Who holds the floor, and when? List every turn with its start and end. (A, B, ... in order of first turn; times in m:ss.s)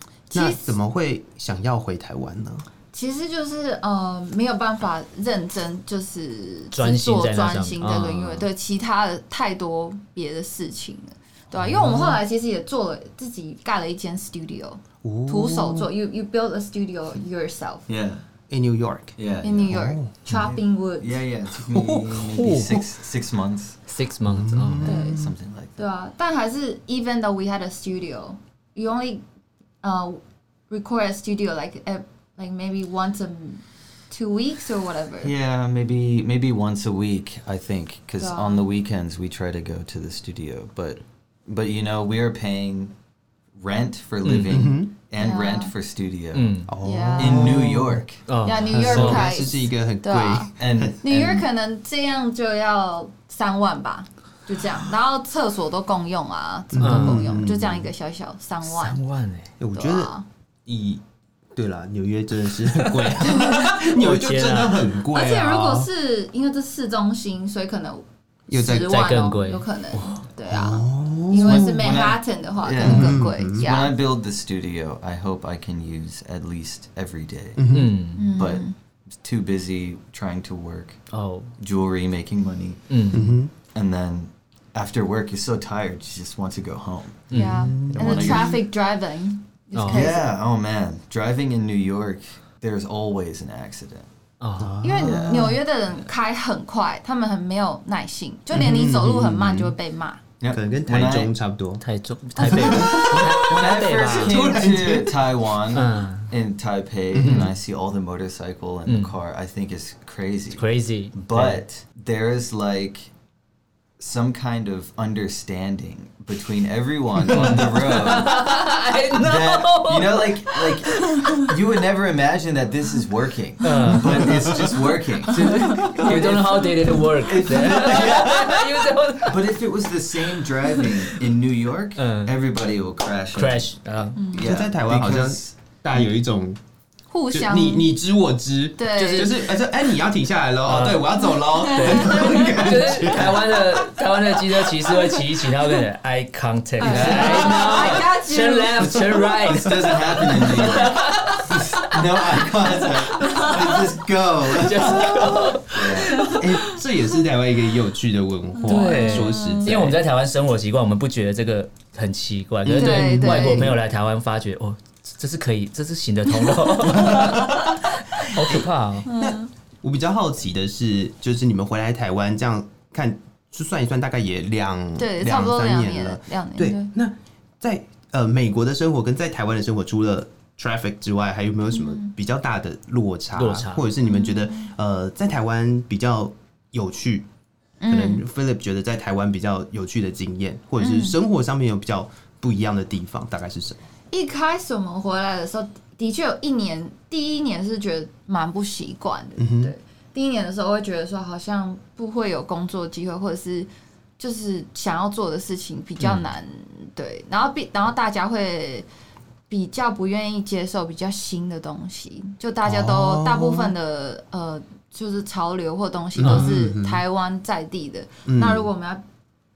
0:00.3-0:00.8 A
0:00.3-0:02.6 B
0:02.9-0:17.8 A
0:06.7-0:08.5 C
0:11.5-0:12.2 B
0:15.0-0:15.9 B
0:17.9-0:18.2 D
0:18.5-0:19.2 B
0:19.2-0:19.8 D
0:19.4-0:21.2 A
0:19.7-0:20.5 B
0:20.3-0:23.8 D
0:21.7-0:22.8 B
0:22.2-0:22.8 C
0:23.9-0:24.9 C
0:24.2-0:25.3 B
0:24.8-0:25.8 D
0:24.8-0:25.2 A
0:25.8-0:29.2 A
0:29.8-0:35.3 A
0:35.2-0:42.9 D
0:38.2-0:38.6 A
0:43.5-0:46.6 D
0:44.2-0:44.7 C
0:44.5-0:44.9 B
0:45.2-0:45.7 A
0:46.3-0:46.7 C
0:46.7-0:48.0 B
0:46.8-0:47.6 A
0:47.2-0:48.2 D
0:48.3-0:49.2 C
0:48.4-0:50.5 A
0:48.7-0:51.0 B
0:48.9-0:49.2 D
0:50.6-0:51.4 D
0:51.0-0:59.0 A
0:56.7-0:57.9 B
0:56.8-0:57.4 C
0:58.6-0:59.5 C
0:59.6-1:00.1 B
0:59.7-1:00.2 A
1:00.6-1:01.0 B
1:01.5-1:05.9 B
1:02.8-1:04.9 C
1:05.1-1:13.9 A
1:08.5-1:09.0 B
1:08.8-1:10.2 C
1:10.5-1:11.8 B
1:11.3-1:17.6 D
1:12.8-1:13.7 B
1:17.6-1:18.0 B
1:17.7-1:18.3 C
1:18.1-1:18.7 A
1:18.3-1:21.0 D
1:21.1-1:21.5 C
1:21.6-1:23.2 D
1:22.9-1:23.3 C
1:23.1-1:23.5 B
1:23.7-1:27.3 D
1:27.3-1:27.8 C
1:27.3-1:30.3 A
1:27.4-1:28.6 B
1:27.9-1:28.6 D
1:29.7-1:30.1 C
1:29.9-1:34.1 D
1:34.4-1:34.8 C
1:34.6-1:35.6 B
1:34.8-1:40.2 A
1:35.0-1:35.5 D
1:38.5-1:39.8 B
1:40.4-1:41.3 D
1:40.5-1:41.8 B
1:41.8-1:44.5 C
1:42.4-1:45.3 B
1:42.8-1:53.1 D
1:45.7-1:46.3 C
1:47.1-1:47.5 B
1:47.2-1:47.5 C
1:48.9-1:49.1 C
1:50.6-1:51.6 C
1:54.0-1:58.4 D
1:57.3-2:01.4 C
1:57.3-1:57.7 B
1:59.1-2:13.7 D
2:03.6-2:04.5 C
2:04.2-2:04.7 B
2:05.3-2:09.4 C
2:05.4-2:05.9 A
2:07.7-2:08.2 B
2:12.0-2:12.3 C
2:13.4-2:14.2 C
2:14.2-2:14.5 A
2:14.3-2:15.5 D
2:14.3-2:16.6 B
2:17.1-2:17.9 A
2:17.3-2:24.9 B
2:18.8-2:19.4 A
2:19.0-2:19.4 C
2:20.6-2:32.0 C
2:21.2-2:22.8 A
2:26.8-2:29.2 A
2:26.8-2:28.0 B
2:26.9-2:27.7 D
2:28.8-2:29.9 B
2:29.4-2:36.3 D
2:33.2-2:33.8 C
2:33.2-2:33.5 A
2:34.5-2:36.7 C
2:34.7-2:35.6 B
2:36.2-2:40.0 B
2:38.6-2:39.9 A
2:38.7-2:49.0 C
2:42.6-2:43.8 B
2:42.7-2:43.7 A
2:46.8-3:07.3 B
2:49.0-2:49.5 A
2:55.0-2:56.9 A
3:01.7-3:02.1 A
3:03.4-3:03.8 C
3:04.0-3:04.7 A
3:07.8-3:08.2 A
3:07.9-3:13.8 B
3:10.8-3:11.2 A
3:14.1-3:28.9 A
3:19.4-3:19.7 B
3:26.0-3:26.2 C
3:29.5-3:39.0 A
3:32.6-3:33.7 B
3:36.2-3:37.0 B
3:36.2-3:36.5 C
3:38.2-3:38.7 B